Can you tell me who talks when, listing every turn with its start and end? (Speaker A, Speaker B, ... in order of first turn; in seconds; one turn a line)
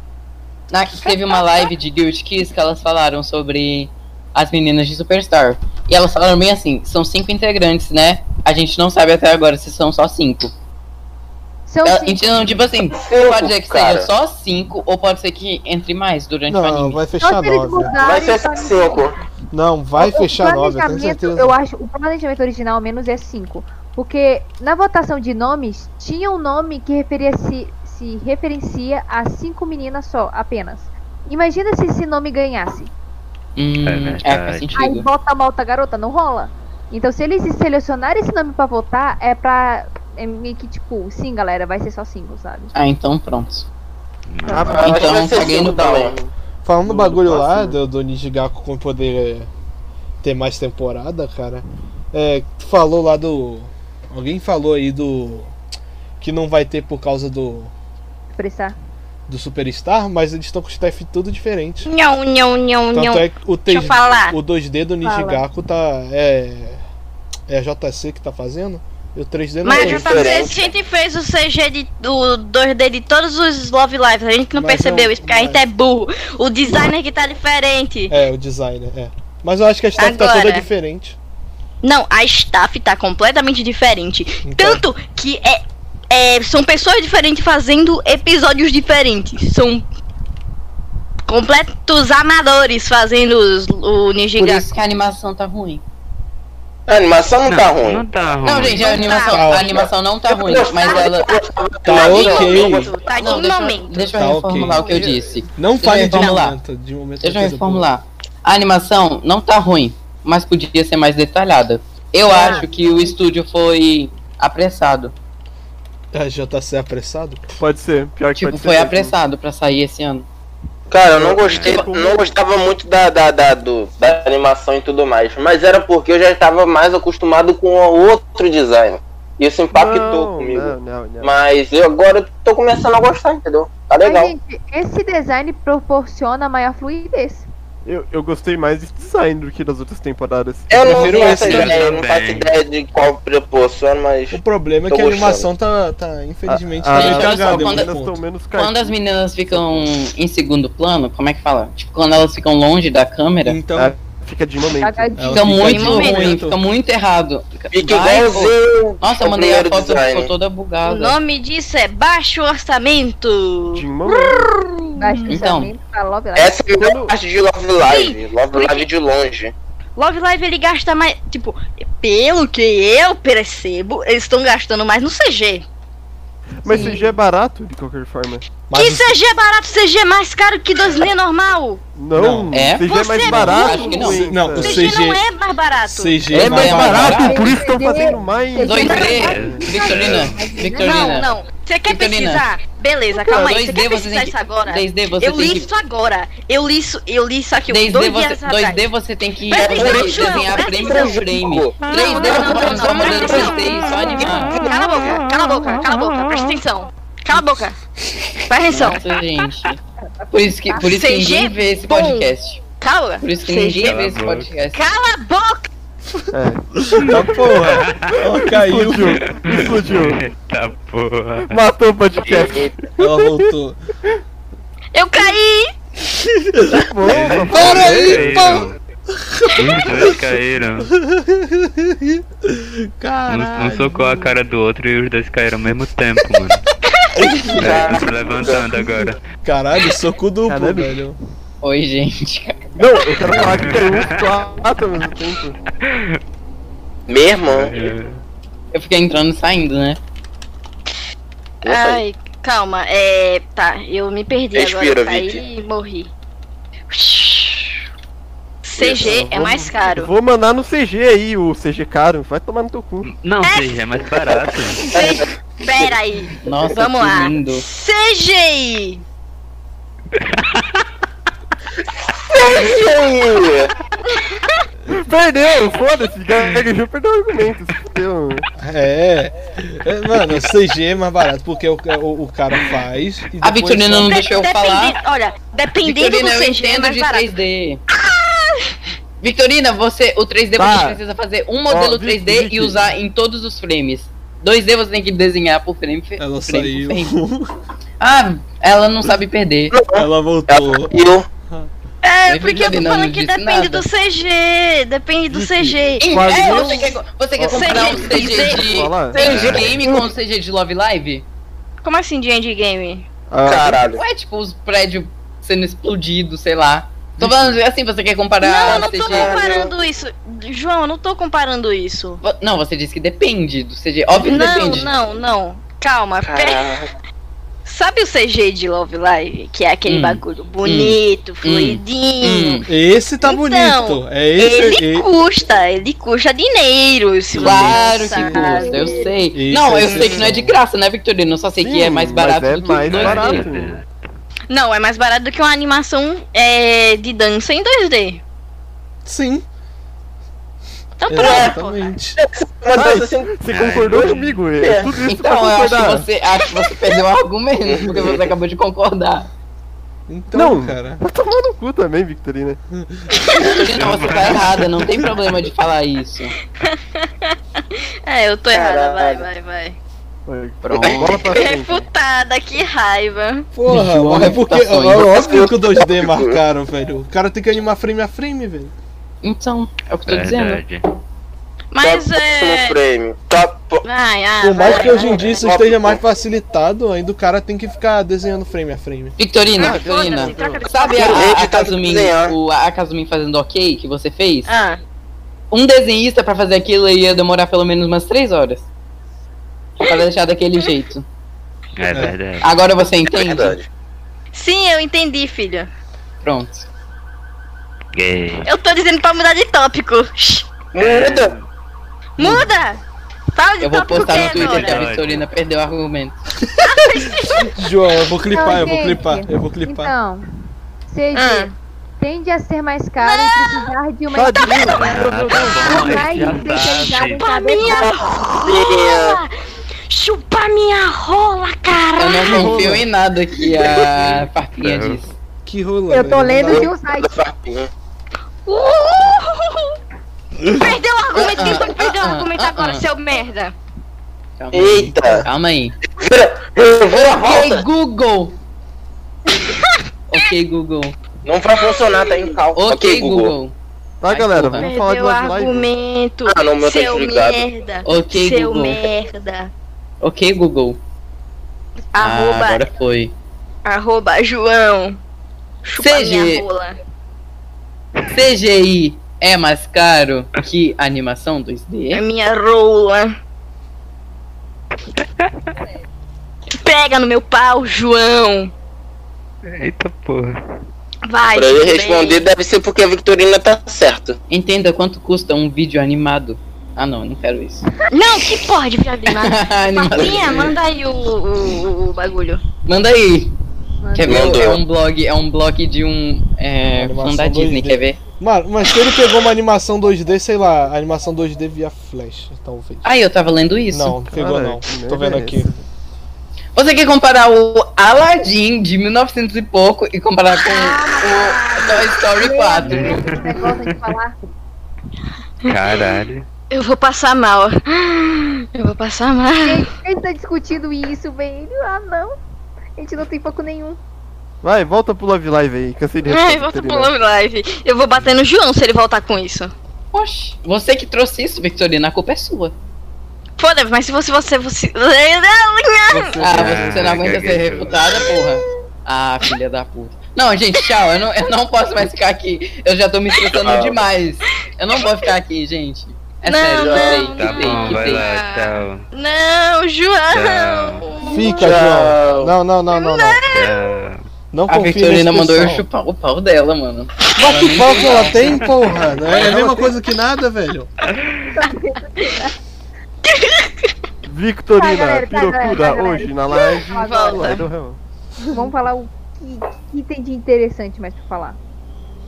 Speaker A: 0.7-10.5
Speaker B: 1.1-1.7
Speaker C: 11.7-12.3
Speaker A: 11.8-17.0
Speaker D: 12.9-14.1
Speaker E: 16.5-18.0
Speaker C: 17.2-19.0
Speaker D: 18.0-19.1
Speaker E: 19.5-21.5
Speaker C: 20.0-32.9
Speaker A: 33.5-35.0
Speaker F: 33.8-34.8
Speaker C: 34.8-42.7
Speaker A: 42.7-43.7
Speaker F: 44.3-44.9
Speaker G: 44.4-46.3
Speaker D: 44.5-46.1
Speaker A: 44.7-45.9
Speaker E: 46.6-49.5
Speaker G: 46.8-47.8
Speaker E: 50.2-55.5
Speaker E: 56.2-57.7
Speaker C: 58.3-58.7
Speaker E: 59.3-61.9
Speaker B: 61.8-64.3
Speaker E: 62.9-66.8
Speaker C: 65.0-65.4
Speaker E: 67.5-70.3
Speaker B: 69.6-78.1
Speaker D: 69.7-70.7
Speaker E: 74.5-75.6
Speaker E: 78.1-81.2
Speaker B: 80.0-80.7
Speaker B: 81.8-89.8
Speaker E: 84.4-84.8
Speaker B: 91.3-94.7
Speaker A: 94.3-95.8
Speaker D: 96.9-98.0
Speaker F: 97.5-99.0
Speaker A: 98.4-101.3
Speaker B: 98.6-99.8
Speaker E: 99.3-99.6
Speaker D: 99.7-103.0
Speaker B: 100.6-101.1
Speaker E: 101.8-102.9
Speaker B: 101.9-105.0
Speaker A: 103.2-106.6
Speaker E: 104.1-104.8
Speaker G: 104.9-105.2
Speaker E: 105.6-107.9
Speaker A: 107.2-115.1
Speaker B: 112.3-112.6
Speaker E: 116.1-117.4
Speaker G: 117.6-119.1
Speaker A: 118.3-120.2
Speaker D: 120.9-134.3
Speaker G: 121.1-122.3
Speaker F: 121.4-121.8
Speaker G: 129.7-131.3
Speaker C: 134.0-137.5
Speaker G: 137.8-141.9
Speaker D: 140.7-145.5
Speaker E: 140.7-141.8
Speaker A: 140.9-141.7
Speaker F: 141.3-142.5
Speaker E: 144.3-148.2
Speaker G: 146.5-149.0
Speaker A: 146.9-147.9
Speaker A: 148.5-153.6
Speaker G: 149.5-149.9
Speaker E: 153.4-153.9
Speaker G: 153.7-155.2
Speaker C: 154.8-155.5
Speaker E: 155.2-156.6
Speaker A: 155.3-161.2
Speaker B: 155.6-156.4
Speaker D: 157.7-160.3
Speaker B: 160.8-165.2
Speaker G: 163.7-164.3
Speaker C: 165.0-166.6
Speaker A: 165.3-165.7
Speaker D: 166.3-169.5
Speaker G: 166.8-167.1
Speaker B: 167.8-168.9
Speaker B: 169.9-175.7
Speaker G: 176.6-178.5
Speaker C: 176.7-177.0
Speaker B: 176.7-177.1
Speaker E: 178.7-179.2
Speaker B: 178.7-181.8
Speaker G: 181.9-184.9
Speaker E: 182.1-182.5
Speaker A: 182.5-184.3
Speaker B: 182.8-186.3
Speaker E: 184.0-185.2
Speaker E: 185.8-187.3
Speaker G: 186.3-189.6
Speaker A: 186.3-187.5
Speaker C: 187.2-191.2
Speaker A: 188.6-191.3
Speaker B: 188.8-189.2
Speaker F: 189.2-190.6
Speaker B: 190.8-198.8
Speaker A: 191.9-192.5
Speaker A: 193.2-195.7
Speaker A: 197.7-204.6
Speaker B: 199.5-201.3
Speaker D: 199.5-203.5
Speaker B: 201.9-207.8
Speaker B: 208.5-209.1
Speaker A: 208.7-209.8
Speaker C: 210.2-210.8
Speaker A: 210.3-212.6
Speaker B: 210.8-214.0
Speaker A: 213.2-214.8
Speaker F: 213.8-214.5
Speaker B: 214.7-215.7
Speaker G: 216.3-217.6
Speaker E: 216.9-219.2
Speaker F: 217.0-218.2
Speaker G: 218.3-220.2
Speaker F: 219.2-221.6
Speaker G: 221.4-223.5
Speaker D: 222.3-222.7
Speaker E: 223.0-223.8
Speaker B: 224.9-225.7
Speaker E: 226.2-230.2
Speaker G: 226.6-228.7
Speaker F: 227.1-228.8
Speaker F: 229.6-230.9
Speaker E: 230.8-234.3
Speaker F: 233.3-236.6
Speaker D: 237.2-238.7
Speaker F: 237.5-239.2
Speaker E: 239.4-241.2
Speaker G: 240.5-241.0
Speaker A: 241.6-242.6
Speaker G: 242.8-245.6
Speaker F: 243.3-244.2
Speaker F: 245.8-246.2
Speaker D: 247.1-247.7
Speaker F: 247.5-248.2
Speaker A: 248.7-250.0
Speaker B: 251.6-256.1
Speaker D: 251.6-252.0
Speaker D: 254.5-255.4
Speaker B: 256.9-257.8
Speaker B: 258.6-260.1
Speaker G: 258.8-263.1
Speaker F: 263.2-264.9
Speaker B: 263.4-263.8
Speaker B: 264.8-269.0
Speaker D: 264.9-265.9
Speaker A: 266.4-267.6
Speaker F: 270.1-270.8
Speaker D: 272.1-273.7
Speaker G: 274.9-278.5
Speaker E: 278.6-284.1
Speaker A: 283.4-285.0
Speaker B: 284.0-287.3
Speaker A: 285.8-287.8
Speaker B: 287.9-288.6
Speaker A: 289.2-297.1
Speaker G: 290.6-291.0
Speaker G: 291.7-292.9
Speaker E: 296.2-297.5
Speaker A: 298.0-299.7
Speaker D: 299.7-301.3
Speaker E: 299.9-300.9
Speaker B: 302.0-309.5
Speaker A: 302.3-303.9
Speaker G: 305.3-309.2
Speaker A: 306.0-311.2
Speaker D: 309.1-310.1
Speaker F: 309.2-309.8
Speaker B: 311.8-313.1
Speaker G: 313.3-313.9
Speaker D: 313.4-314.0
Speaker A: 313.9-319.3
Speaker B: 318.4-322.2
Speaker D: 318.7-319.7
Speaker A: 322.2-324.9
Speaker B: 324.1-326.7
Speaker D: 326.2-326.9
Speaker B: 327.6-332.6
Speaker A: 329.9-332.6
Speaker E: 332.7-335.1
Speaker B: 333.2-339.1
Speaker A: 337.4-343.4
Speaker G: 337.4-337.7
Speaker C: 338.1-339.1
Speaker E: 339.3-340.6
Speaker B: 339.8-340.3
Speaker G: 341.6-343.8
Speaker F: 342.8-343.9
Speaker B: 344.5-348.2
Speaker E: 349.0-349.4
Speaker B: 351.0-351.9
Speaker E: 351.0-352.2
Speaker D: 351.2-351.5
Speaker D: 352.2-353.3
Speaker G: 352.7-356.1
Speaker F: 353.5-354.4
Speaker D: 354.6-354.9
Speaker A: 355.1-359.3
Speaker D: 357.7-358.2
Speaker E: 360.1-361.0
Speaker G: 360.3-362.6
Speaker E: 362.8-363.0
Speaker A: 363.4-366.4
Speaker F: 363.8-364.7
Speaker B: 368.1-369.8
Speaker D: 368.5-369.3
Speaker G: 370.2-371.9
Speaker A: 370.6-371.4
Speaker B: 371.0-373.5
Speaker E: 373.5-378.7
Speaker A: 373.7-375.1
Speaker D: 374.9-376.4
Speaker A: 379.2-380.6
Speaker F: 380.1-380.9
Speaker B: 381.7-382.8
Speaker D: 381.8-383.8
Speaker B: 383.8-385.3
Speaker E: 384.4-389.1
Speaker D: 384.6-386.0
Speaker A: 389.2-394.5
Speaker B: 389.6-391.4
Speaker G: 389.6-390.7
Speaker D: 390.9-392.4
Speaker B: 394.5-394.8
Speaker A: 395.5-398.6
Speaker A: 399.8-401.0
Speaker F: 401.8-402.6
Speaker A: 402.4-403.6
Speaker D: 403.1-403.7
Speaker B: 404.3-405.7
Speaker A: 406.2-406.7
Speaker F: 407.9-408.5
Speaker B: 408.4-410.5
Speaker D: 410.7-411.3
Speaker F: 410.8-411.4
Speaker B: 412.2-412.8
Speaker E: 412.2-412.5
Speaker B: 413.3-414.9
Speaker A: 413.6-416.2
Speaker F: 414.0-415.2
Speaker B: 416.6-417.5
Speaker E: 417.5-419.9
Speaker C: 418.3-420.2
Speaker C: 420.9-427.9
Speaker B: 421.1-421.5
Speaker B: 423.0-423.6
Speaker G: 424.1-426.4
Speaker F: 424.7-427.2
Speaker B: 426.4-429.3
Speaker D: 428.3-429.2
Speaker B: 429.9-432.6
Speaker A: 432.0-435.1
Speaker E: 432.3-432.8
Speaker G: 432.3-432.8
Speaker F: 434.1-435.0
Speaker E: 435.4-436.7
Speaker C: 435.9-437.1
Speaker D: 436.5-437.7
Speaker B: 438.4-439.7
Speaker B: 440.5-443.5
Speaker A: 441.1-442.9
Speaker A: 444.4-445.8
Speaker D: 444.5-445.3
Speaker D: 446.0-447.6
Speaker A: 446.8-448.4
Speaker A: 450.1-450.9
Speaker D: 451.2-453.3
Speaker B: 451.7-452.2
Speaker A: 452.6-453.5
Speaker G: 454.0-455.7
Speaker A: 454.1-454.7
Speaker B: 454.6-459.5
Speaker D: 456.2-457.4
Speaker A: 457.9-458.8
Speaker A: 460.0-460.8
Speaker B: 461.9-462.6
Speaker A: 462.0-463.1
Speaker B: 463.6-465.0
Speaker B: 465.6-466.8
Speaker A: 465.8-466.4
Speaker A: 468.0-472.0
Speaker B: 471.9-473.1
Speaker B: 476.6-478.5
Speaker F: 479.4-480.3
Speaker B: 481.1-482.2
Speaker D: 481.3-484.2
Speaker A: 484.3-487.7
Speaker B: 487.9-492.4
Speaker A: 489.1-490.6
Speaker D: 490.0-490.5
Speaker A: 492.6-493.4
Speaker C: 493.8-494.4
Speaker A: 493.9-498.0
Speaker D: 494.0-494.6
Speaker E: 496.8-502.9
Speaker A: 502.8-504.0
Speaker E: 503.7-505.5
Speaker G: 504.1-505.6
Speaker A: 506.6-513.0
Speaker C: 510.4-514.1
Speaker F: 512.6-513.8
Speaker B: 515.4-516.0
Speaker F: 515.5-516.2
Speaker B: 516.5-519.7
Speaker C: 519.4-522.1
Speaker C: 522.8-523.8
Speaker G: 524.4-526.9
Speaker B: 526.0-529.5
Speaker A: 529.9-532.5
Speaker B: 533.4-536.3
Speaker G: 535.9-538.0
Speaker A: 536.2-548.0
Speaker F: 536.3-537.8
Speaker B: 540.6-540.9
Speaker D: 543.3-543.8
Speaker B: 544.7-545.1
Speaker B: 546.2-551.6
Speaker D: 546.6-547.0
Speaker F: 546.9-548.9
Speaker F: 550.1-550.8
Speaker E: 551.1-553.2
Speaker D: 551.4-552.3
Speaker B: 552.7-553.6
Speaker F: 553.3-554.0
Speaker E: 554.3-555.6
Speaker A: 554.5-558.4
Speaker E: 557.2-560.7
Speaker F: 558.1-558.4
Speaker G: 559.1-559.6
Speaker F: 560.8-561.4
Speaker C: 561.3-562.3
Speaker B: 563.0-563.5
Speaker G: 564.0-567.8
Speaker C: 564.6-567.3
Speaker B: 566.3-567.5
Speaker C: 568.3-571.4